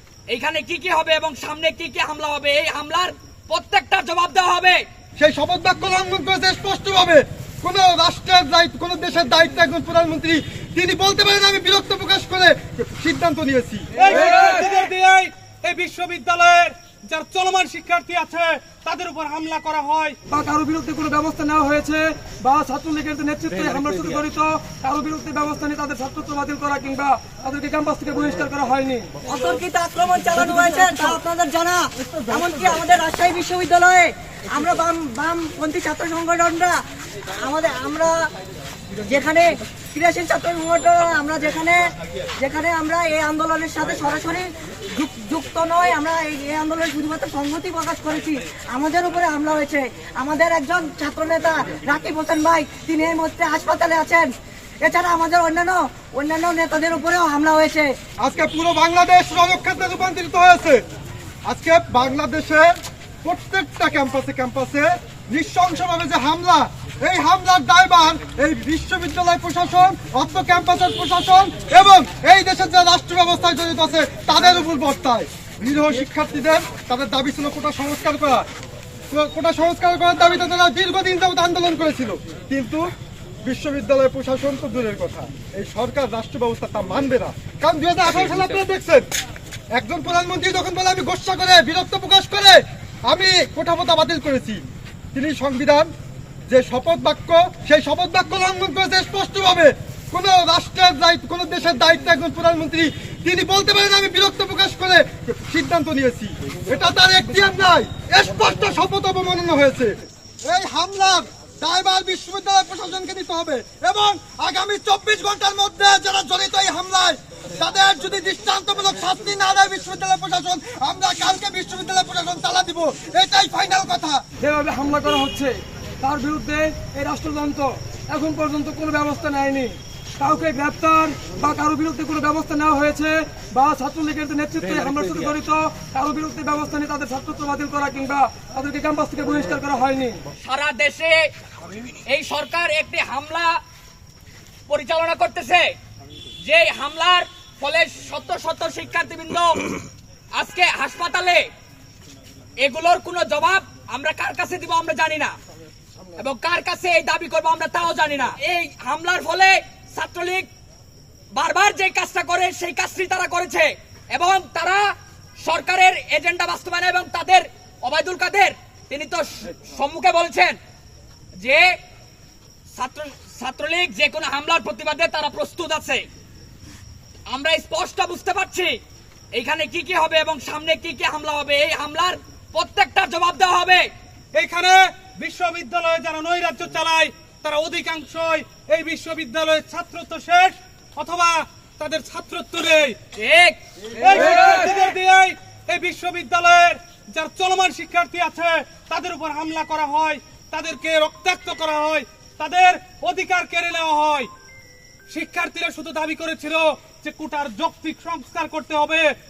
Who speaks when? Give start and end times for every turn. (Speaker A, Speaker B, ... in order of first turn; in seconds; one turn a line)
Speaker A: 0.3-4.8
Speaker B: 5.2-13.9
Speaker C: 14.0-20.1
Speaker D: 20.3-29.2
Speaker E: 29.2-36.8
Speaker D: 30.4-31.2
Speaker E: 37.4-38.3
Speaker E: 39.0-58.0
Speaker B: 58.2-60.8
Speaker B: 61.5-62.7
Speaker B: 63.2-78.5
Speaker B: 79.1-82.8
Speaker B: 83.4-89.1
Speaker B: 89.8-94.6
Speaker B: 95.1-95.9
Speaker B: 96.5-124.2
Speaker D: 124.4-140.2
Speaker A: 140.4-141.2
Speaker A: 142.1-143.6
Speaker A: 144.7-145.7
Speaker A: 146.4-149.7
Speaker A: 150.3-151.4
Speaker A: 152.6-155.3
Speaker A: 156.2-160.5
Speaker A: 161.3-164.9
Speaker A: 165.4-170.6
Speaker A: 171.4-171.7
Speaker A: 172.8-176.0
Speaker A: 177.3-178.7
Speaker A: 179.3-183.8
Speaker C: 184.3-193.0
Speaker A: 193.2-194.7
Speaker C: 194.0-204.3
Speaker C: 205.1-209.1